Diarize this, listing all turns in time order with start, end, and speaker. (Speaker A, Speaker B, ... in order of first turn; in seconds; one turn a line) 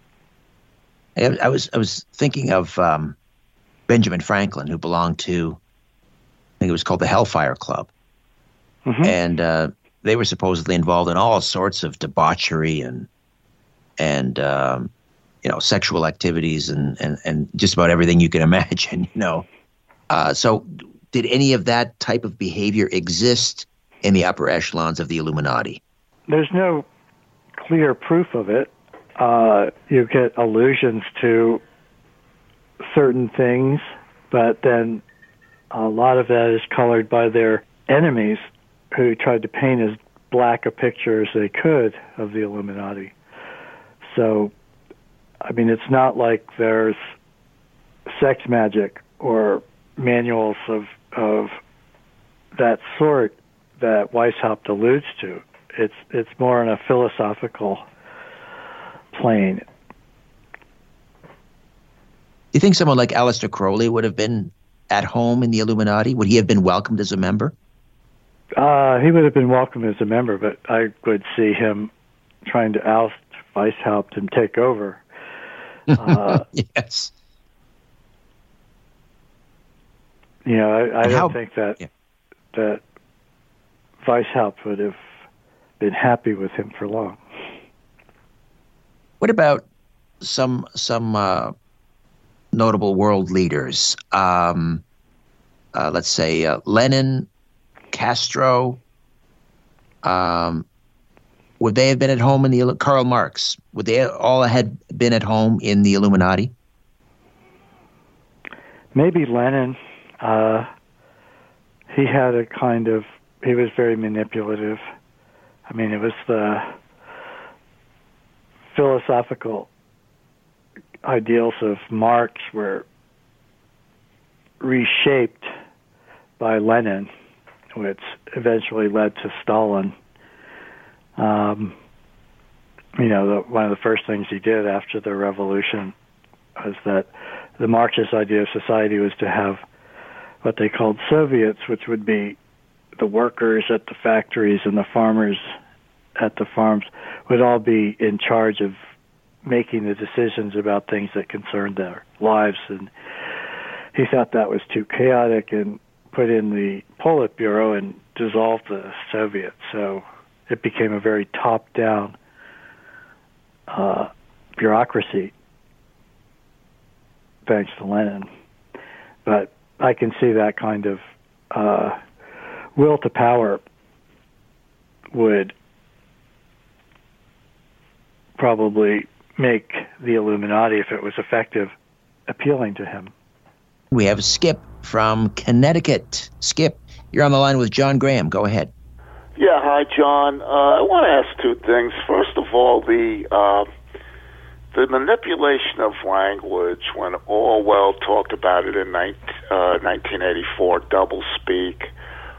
Speaker A: 1.1-3.1
Speaker A: 3.9-5.6
Speaker A: 6.6-7.9
Speaker B: 8.8-9.2
Speaker A: 9.0-13.1
Speaker A: 14.0-14.9
Speaker A: 15.4-19.4
Speaker A: 20.1-25.8
Speaker B: 26.3-26.9
Speaker B: 27.6-31.6
Speaker B: 32.8-35.0
Speaker B: 35.7-43.1
Speaker B: 44.0-44.5
Speaker B: 45.4-47.1
Speaker B: 48.1-51.6
Speaker B: 52.5-57.8
Speaker B: 59.1-59.6
Speaker A: 62.5-67.5
Speaker B: 68.6-71.9
Speaker B: 72.4-75.0
Speaker A: 75.9-77.1
Speaker B: 76.0-76.4
Speaker B: 80.4-81.8
Speaker A: 81.0-81.8
Speaker B: 82.5-82.8
Speaker B: 84.0-85.0
Speaker B: 85.8-87.2
Speaker A: 89.2-89.6
Speaker A: 90.2-91.5
Speaker A: 92.5-94.8
Speaker A: 95.7-97.3
Speaker A: 97.9-98.8
Speaker A: 100.0-100.7
Speaker A: 101.6-106.5
Speaker B: 108.9-110.7
Speaker B: 111.9-114.8
Speaker B: 115.7-116.7
Speaker B: 118.7-119.7
Speaker B: 121.0-122.8
Speaker B: 124.6-125.5
Speaker B: 126.4-127.1
Speaker B: 127.7-129.9
Speaker B: 131.2-131.7
Speaker B: 133.0-135.9
Speaker B: 136.6-139.6
Speaker B: 140.4-142.4
Speaker B: 143.0-145.5
Speaker B: 146.2-148.8
Speaker B: 149.4-152.9
Speaker B: 153.9-162.1
Speaker B: 163.7-165.3
Speaker B: 167.4-168.3
Speaker B: 169.2-172.0
Speaker B: 172.8-173.6
Speaker B: 175.1-175.5
Speaker B: 178.4-181.7
Speaker B: 182.3-183.1
Speaker A: 183.9-188.7
Speaker C: 189.4-193.7
Speaker C: 194.7-201.9